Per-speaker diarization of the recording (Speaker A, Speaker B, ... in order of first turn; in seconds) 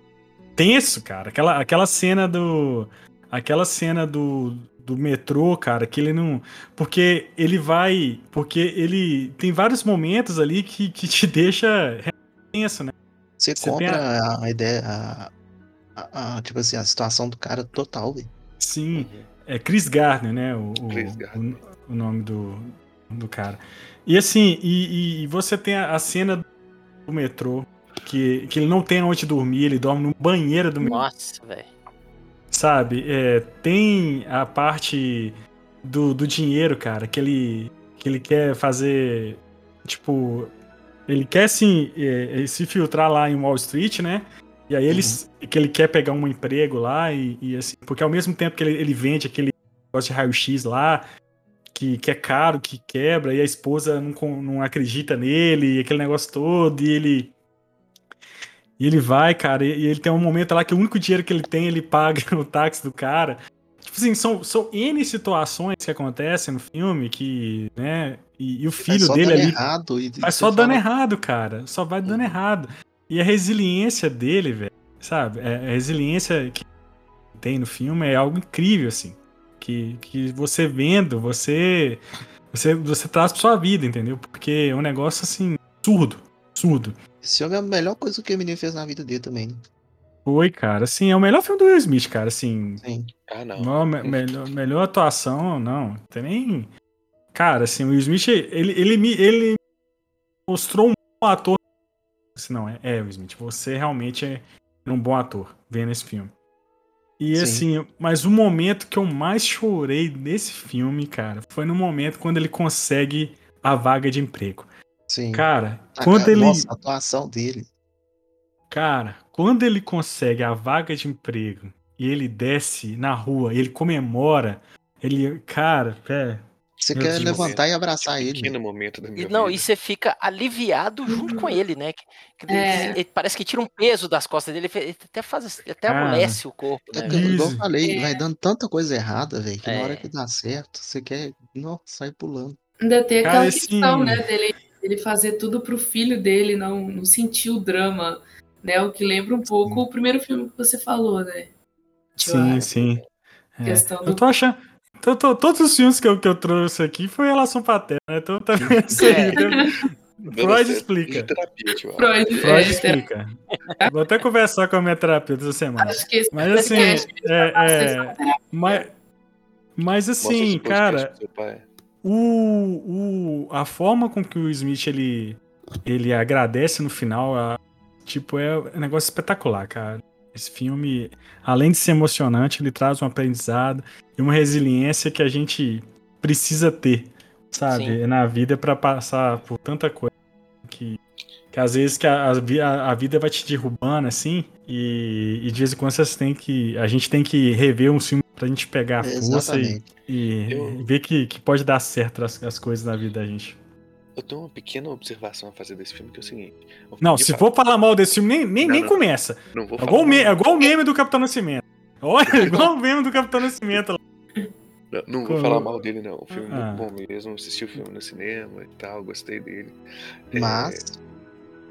Speaker A: 0.6-12.9, 13.6-14.0, 18.6-26.4, 27.1-31.0, 32.5-40.5, 41.1-51.0, 51.7-57.4, 58.8-69.6, 70.2-76.7, 77.4-82.0, 82.5-87.0, 90.2-92.8, 93.6-96.7, 97.3-99.6, 100.5-101.6, 102.3-106.3, 107.2-114.7, 115.3-116.7, 118.7-127.5, 135.9-136.4, 137.1-137.6, 143.2-144.2, 152.2-153.0, 153.6-161.3, 162.4-163.3, 163.9-168.9, 169.8-171.1, 172.0-190.1, 190.7-191.0, 191.5-203.6, 207.0-214.0, 215.3-215.7, 216.4-216.9
Speaker B: 13.4-15.3, 16.0-18.3, 44.9-45.2, 68.8-70.8, 87.2-89.6, 92.8-93.1, 107.3-107.7, 115.1-117.7, 126.8-128.6, 136.9-142.6, 158.6-158.9, 199.0-199.8, 220.3-221.0
Speaker C: 18.9-19.3, 20.9-21.6, 72.0-72.3, 93.3-94.2, 126.9-129.7, 152.5-153.1, 160.3-162.9, 170.2-171.7, 200.5-200.9, 204.2-207.5, 208.6-210.4, 212.3-212.7, 214.9-219.8, 220.3-220.9
Speaker D: 30.8-31.7, 129.2-137.3, 139.6-140.1, 159.0-159.4, 166.6-167.1, 187.7-188.0
Speaker E: 131.1-131.6, 132.5-133.0, 137.8-138.2, 142.8-151.5, 152.2-152.7, 153.7-154.2, 159.0-159.7, 162.0-163.0, 165.8-168.8